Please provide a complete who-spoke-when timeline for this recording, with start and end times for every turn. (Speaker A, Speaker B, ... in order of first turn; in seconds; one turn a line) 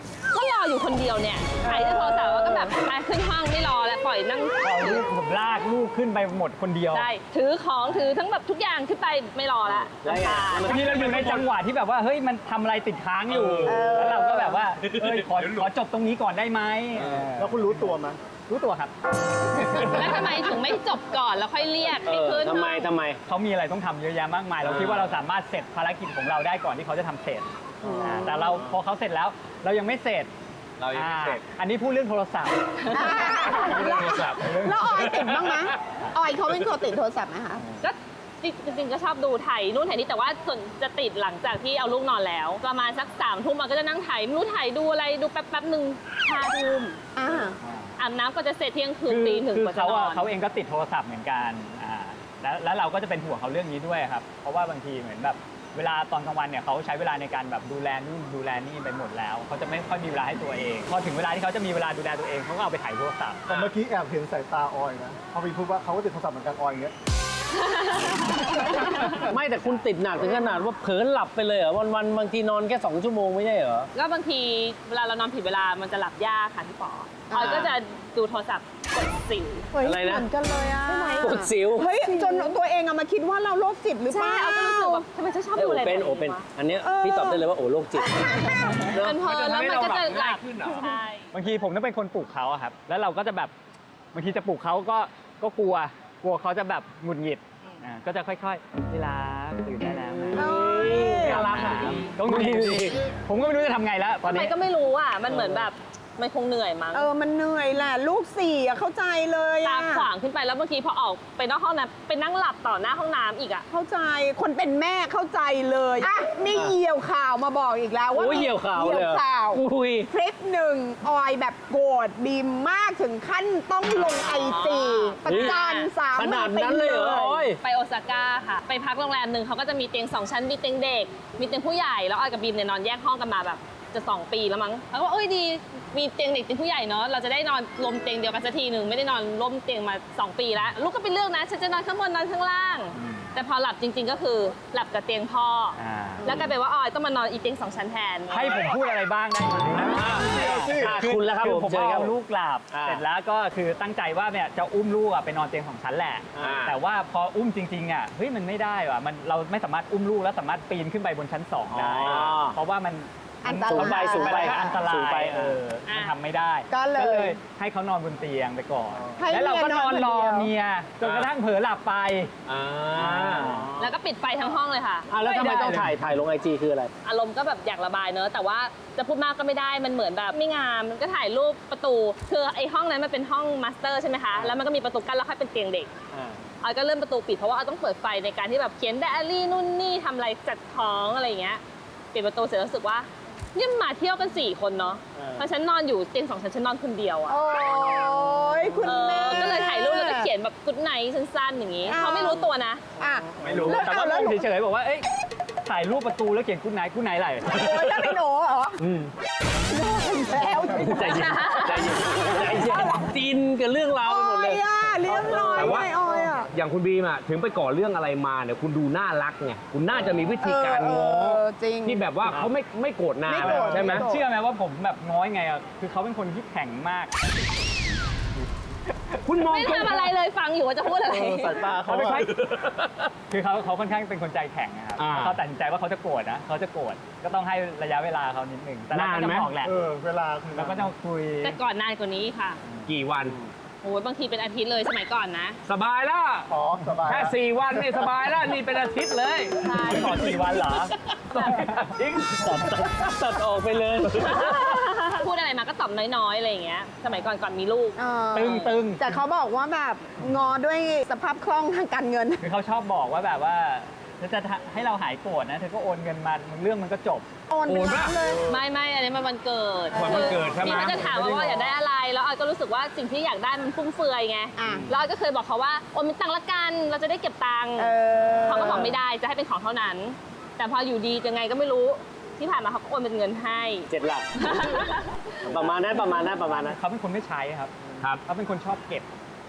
Speaker A: 0.3-5.0
Speaker B: 4.6-7.1
Speaker A: 6.9-11.1
Speaker C: 9.7-11.4
Speaker B: 10.6-17.9
Speaker D: 13.3-13.8
Speaker E: 13.7-14.6
Speaker D: 14.8-15.7
Speaker F: 17.4-18.2
Speaker B: 18.5-18.9
Speaker B: 19.6-20.1
Speaker A: 19.8-22.9
Speaker C: 22.0-23.2
Speaker B: 23.3-30.3
Speaker C: 24.6-25.1
Speaker C: 27.8-28.5
Speaker E: 27.8-28.3
Speaker D: 30.8-31.4
Speaker B: 30.9-35.2
Speaker A: 32.9-33.7
Speaker E: 32.9-37.6
Speaker D: 33.2-35.8
Speaker A: 37.8-47.0
Speaker E: 47.1-47.5
Speaker B: 47.6-47.9
Speaker A: 48.0-50.3
Speaker B: 49.1-63.7
Speaker F: 63.5-66.9
Speaker A: 67.5-69.2
Speaker C: 69.2-73.9
Speaker A: 73.9-79.7
Speaker E: 77.3-77.7
Speaker C: 77.3-77.7
Speaker E: 79.7-85.0
Speaker C: 79.8-80.3
Speaker A: 80.9-81.3
Speaker C: 81.2-81.9
Speaker A: 82.0-82.5
Speaker A: 84.1-86.5
Speaker C: 85.5-89.3
Speaker E: 86.8-87.4
Speaker A: 88.7-91.3
Speaker D: 89.2-91.0
Speaker B: 91.3-93.5
Speaker B: 94.1-104.5
Speaker E: 100.3-101.5
Speaker C: 100.3-102.9
Speaker A: 104.2-107.1
Speaker C: 105.3-105.7
Speaker E: 106.9-110.1
Speaker A: 109.6-113.7
Speaker E: 113.7-127.5
Speaker C: 116.5-116.8
Speaker C: 118.1-120.1
Speaker A: 124.2-126.0
Speaker C: 125.2-127.6
Speaker A: 127.0-148.5
Speaker B: 142.9-143.3
Speaker B: 145.8-146.5
Speaker B: 148.3-172.3
Speaker C: 149.8-153.0
Speaker D: 150.1-150.7
Speaker F: 150.4-150.9
Speaker C: 156.3-156.6
Speaker D: 156.4-156.8
Speaker C: 161.7-162.6
Speaker E: 163.4-164.7
Speaker C: 163.5-165.6
Speaker A: 165.8-166.1
Speaker E: 166.7-167.4
Speaker E: 169.2-170.5
Speaker D: 171.0-171.3
Speaker D: 172.4-173.6
Speaker B: 172.9-173.7
Speaker C: 172.9-173.9
Speaker A: 173.8-175.2
Speaker C: 175.1-176.9
Speaker B: 175.2-176.2
Speaker A: 177.0-185.9
Speaker C: 184.3-184.6
Speaker C: 186.1-186.4
Speaker A: 186.6-191.6
Speaker A: 192.1-197.4
Speaker C: 195.2-195.5
Speaker E: 197.3-200.3
Speaker A: 198.8-202.8
Speaker E: 201.8-204.4
Speaker C: 203.4-203.8
Speaker B: 203.4-205.1
Speaker B: 205.6-207.8
Speaker E: 207.5-208.8
Speaker E: 209.7-211.3
Speaker C: 210.7-216.3
Speaker A: 211.0-211.9
Speaker E: 212.3-213.0
Speaker E: 214.0-216.5
Speaker D: 215.5-215.9
Speaker D: 216.4-224.0
Speaker E: 220.4-222.1
Speaker E: 223.2-224.2
Speaker B: 223.3-227.1
Speaker D: 229.2-230.1
Speaker A: 229.4-231.8
Speaker F: 231.0-232.3
Speaker B: 231.8-232.3
Speaker D: 232.4-233.1
Speaker B: 233.3-239.7
Speaker D: 235.0-235.4
Speaker D: 238.9-239.5
Speaker F: 239.6-240.9
Speaker B: 240.5-241.6
Speaker A: 241.4-242.6
Speaker D: 242.9-243.4
Speaker A: 243.8-245.6
Speaker D: 245.7-246.5
Speaker F: 246.5-247.4
Speaker D: 247.1-249.8
Speaker A: 249.6-250.7
Speaker B: 249.8-251.9
Speaker A: 251.3-251.6
Speaker C: 251.7-254.6
Speaker A: 254.2-258.8
Speaker E: 258.0-262.4
Speaker B: 258.3-259.1
Speaker B: 262.4-267.3
Speaker E: 267.5-268.4
Speaker D: 267.7-268.5
Speaker A: 268.5-283.9
Speaker D: 269.9-271.8
Speaker E: 274.6-274.9
Speaker E: 277.8-278.9
Speaker C: 278.5-279.0
Speaker C: 283.9-284.8
Speaker A: 284.4-285.2
Speaker C: 285.4-286.8
Speaker B: 285.5-287.7
Speaker B: 288.2-289.1